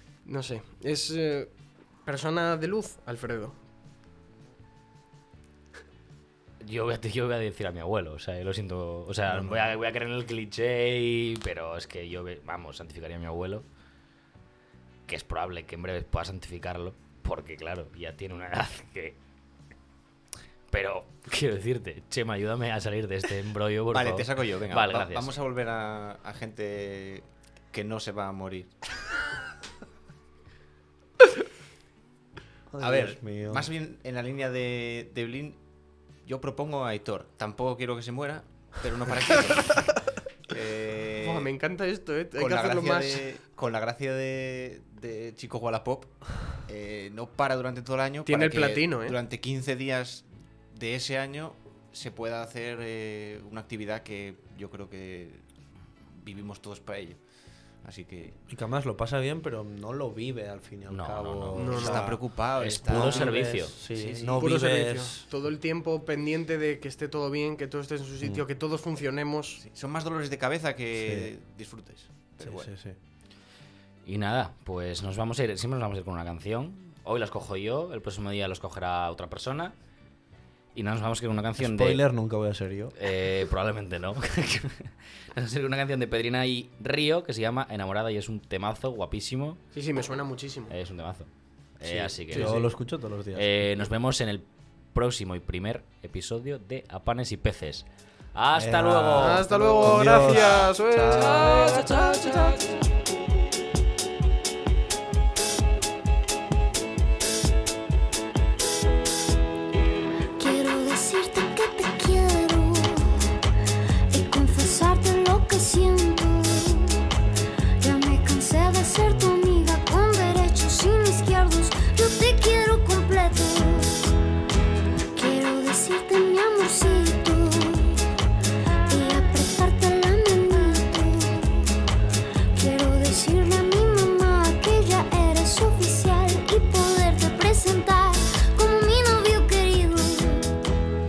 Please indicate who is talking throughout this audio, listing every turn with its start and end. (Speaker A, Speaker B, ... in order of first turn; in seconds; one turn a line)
Speaker A: 0.2-1.5
Speaker A: 2.0-3.6
Speaker B: 6.6-13.7
Speaker B: 15.1-19.2
Speaker B: 20.7-25.3
Speaker C: 23.9-28.7
Speaker D: 32.7-33.7
Speaker C: 32.8-35.6
Speaker C: 36.2-41.5
Speaker A: 41.2-43.3
Speaker C: 42.4-55.4
Speaker A: 48.2-49.1
Speaker C: 56.1-57.2
Speaker C: 57.8-58.4
Speaker D: 58.5-65.2
Speaker B: 60.9-61.9
Speaker A: 61.5-62.1
Speaker C: 61.7-64.5
Speaker B: 62.5-63.8
Speaker A: 64.4-69.6
Speaker C: 69.6-72.7
Speaker D: 71.0-71.3
Speaker D: 72.4-73.0
Speaker B: 74.0-79.7
Speaker B: 80.7-82.0
Speaker D: 81.6-82.9
Speaker B: 83.0-89.6
Speaker A: 89.7-90.7
Speaker B: 90.7-92.7
Speaker D: 91.8-93.6
Speaker A: 92.3-92.7
Speaker B: 93.3-100.7
Speaker D: 98.5-101.8
Speaker A: 99.1-102.7
Speaker B: 101.4-102.5
Speaker E: 110.4-113.4
Speaker E: 114.1-117.1
Speaker E: 117.8-124.1
Speaker E: 125.1-128.1
Speaker E: 128.9-131.8
Speaker E: 132.5-140.6